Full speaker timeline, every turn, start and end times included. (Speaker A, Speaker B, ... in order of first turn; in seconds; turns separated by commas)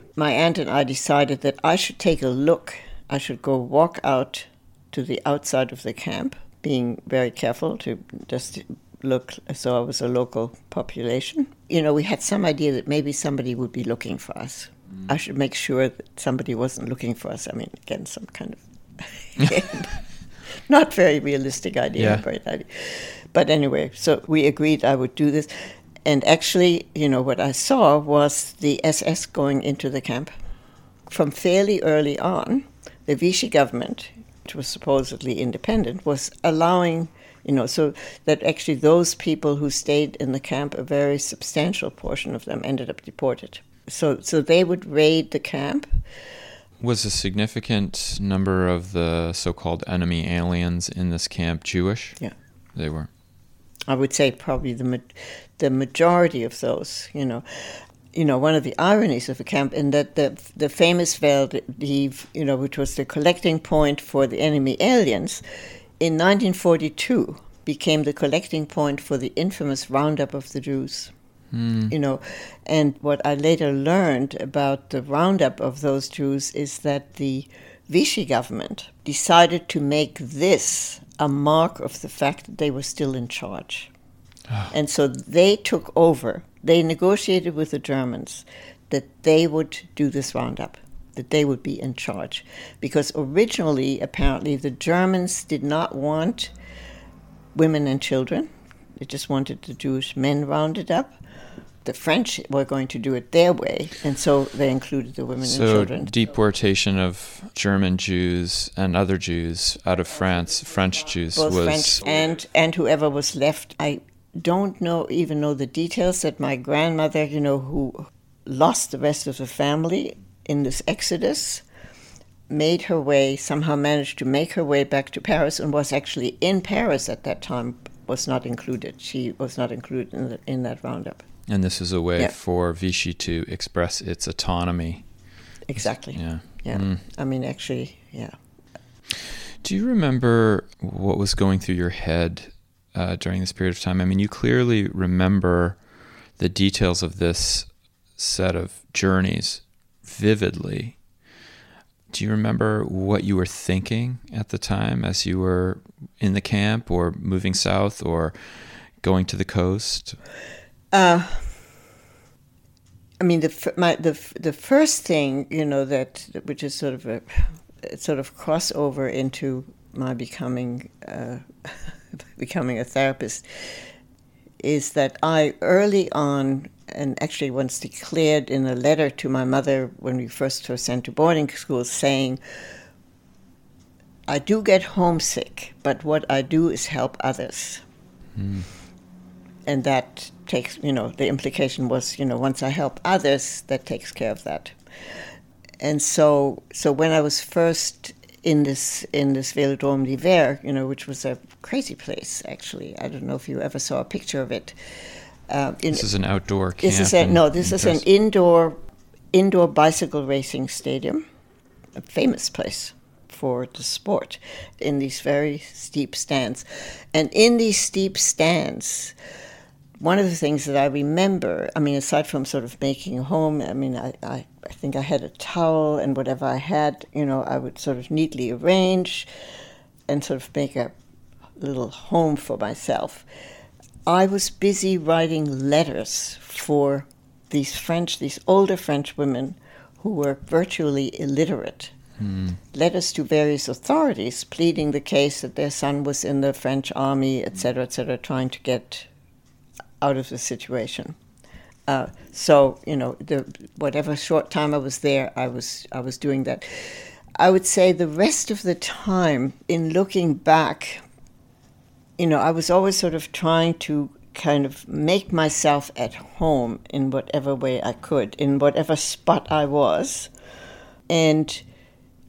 Speaker A: 0.2-30.3, Speaker B: 22.0-22.2, Speaker A: 31.1-45.9, Speaker B: 46.8-52.2, Speaker B: 52.8-53.1, Speaker A: 53.9-65.4, Speaker A: 66.0-71.1, Speaker B: 71.5-71.9, Speaker A: 71.9-83.9, Speaker A: 84.7-96.5, Speaker A: 97.5-101.2, Speaker A: 101.8-106.1, Speaker B: 105.4-112.1, Speaker A: 111.4-121.6, Speaker A: 122.5-131.2, Speaker B: 131.5-135.1, Speaker A: 135.7-138.4, Speaker B: 135.8-137.0, Speaker B: 139.6-145.8, Speaker B: 146.4-151.0, Speaker B: 152.1-160.2, Speaker A: 160.9-161.5, Speaker A: 163.2-173.8, Speaker A: 174.6-182.4, Speaker A: 184.3-187.8, Speaker B: 188.4-188.7, Speaker A: 189.7-194.8, Speaker A: 195.8-204.8, Speaker A: 205.5-206.1, Speaker B: 205.9-208.0, Speaker A: 206.8-208.8, Speaker A: 209.3-211.2, Speaker A: 212.0-219.1, Speaker A: 220.0-229.3, Speaker A: 230.1-230.9, Speaker A: 231.6-233.3, Speaker A: 234.1-241.9, Speaker B: 242.2-242.5, Speaker A: 242.7-249.1, Speaker A: 250.0-251.2, Speaker A: 251.9-261.0, Speaker A: 262.2-270.3, Speaker A: 271.1-271.6